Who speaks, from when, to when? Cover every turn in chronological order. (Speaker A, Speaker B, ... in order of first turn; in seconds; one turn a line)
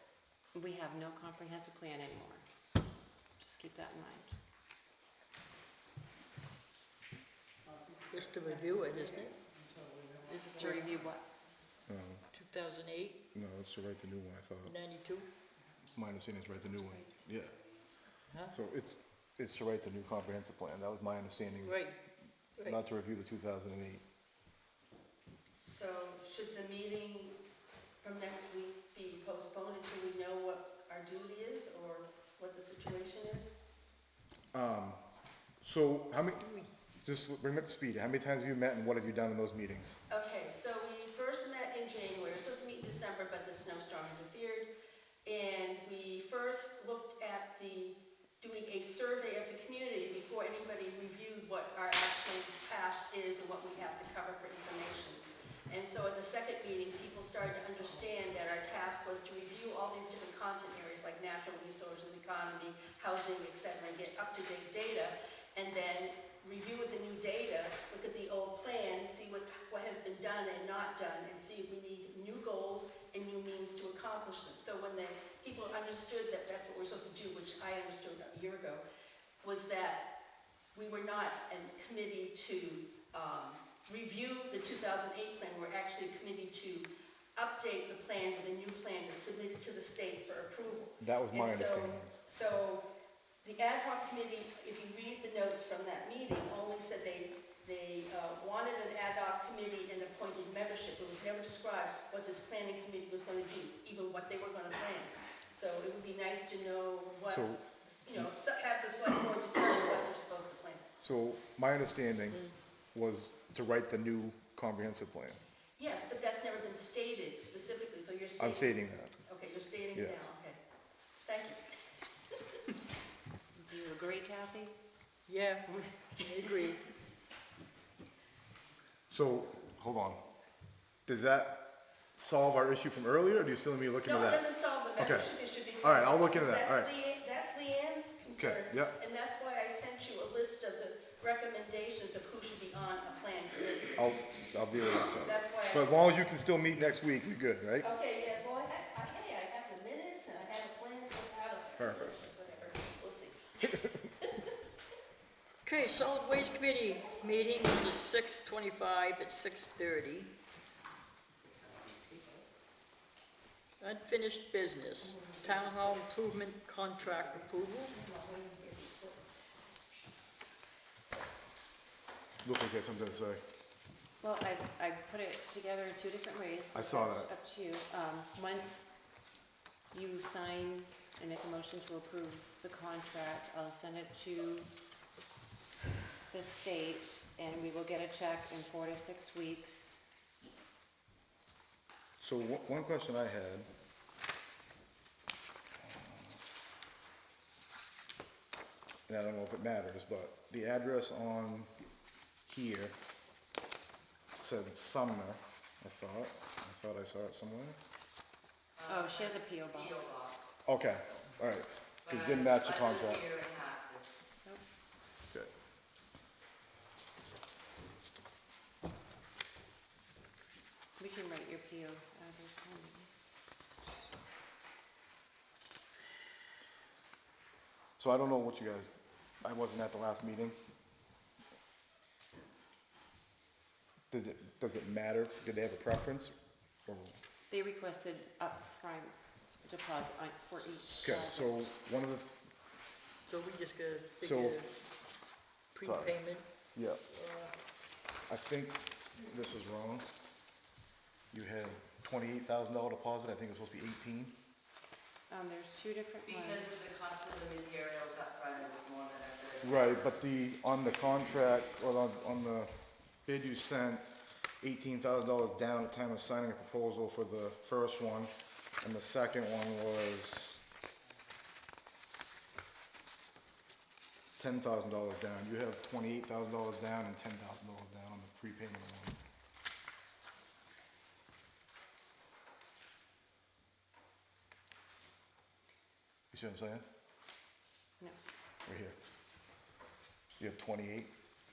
Speaker A: 0.5-2.5
Speaker A: 3.4-4.3
Speaker B: 8.1-9.3
Speaker B: 10.2-10.8
Speaker A: 10.5-11.2
Speaker C: 11.9-12.2
Speaker B: 12.3-13.2
Speaker C: 13.3-14.7
Speaker B: 14.6-15.3
Speaker C: 15.9-17.5
Speaker B: 18.3-18.5
Speaker C: 18.5-21.8
Speaker B: 21.6-22.0
Speaker C: 22.6-24.0
Speaker D: 25.6-27.4
Speaker D: 28.0-33.6
Speaker C: 34.5-35.0
Speaker C: 35.6-40.0
Speaker D: 40.1-44.7
Speaker D: 45.2-78.8
Speaker D: 79.4-80.1
Speaker D: 80.7-92.8
Speaker C: 91.0-92.1
Speaker D: 93.4-107.5
Speaker C: 107.3-107.6
Speaker D: 108.0-110.8
Speaker C: 111.0-115.4
Speaker D: 115.8-120.6
Speaker C: 118.4-119.1
Speaker C: 119.9-120.3
Speaker D: 121.2-121.6
Speaker A: 123.5-124.7
Speaker B: 125.3-126.8
Speaker D: 125.7-126.2
Speaker C: 129.1-130.2
Speaker C: 131.1-134.4
Speaker D: 134.0-144.0
Speaker C: 135.0-136.9
Speaker C: 138.3-139.0
Speaker C: 144.0-147.9
Speaker D: 145.2-146.0
Speaker D: 147.8-153.9
Speaker C: 151.8-152.1
Speaker B: 155.6-160.3
Speaker B: 163.8-167.9
Speaker D: 165.1-165.9
Speaker D: 167.0-169.3
Speaker C: 172.4-173.4
Speaker A: 174.2-178.9
Speaker C: 176.7-177.3
Speaker A: 179.9-184.7
Speaker A: 186.3-190.0
Speaker C: 192.2-193.7
Speaker C: 195.8-196.4
Speaker C: 199.1-201.7
Speaker C: 202.4-202.9
Speaker C: 204.4-207.8
Speaker A: 208.8-210.3
Speaker C: 210.6-213.5
Speaker A: 221.0-223.1
Speaker C: 228.0-228.9
Speaker C: 229.4-230.6
Speaker C: 234.1-237.2
Speaker A: 237.5-241.7
Speaker C: 241.0-242.4
Speaker B: 243.2-244.8
Speaker C: 244.2-244.7
Speaker B: 245.7-246.4
Speaker C: 245.8-246.2
Speaker C: 246.7-247.0
Speaker B: 247.1-247.5
Speaker C: 248.3-250.1
Speaker C: 251.3-254.4
Speaker A: 255.3-257.0
Speaker C: 259.6-264.1
Speaker C: 264.6-270.6
Speaker C: 274.4-279.2
Speaker C: 286.3-286.9
Speaker C: 288.6-289.0
Speaker C: 290.4-291.1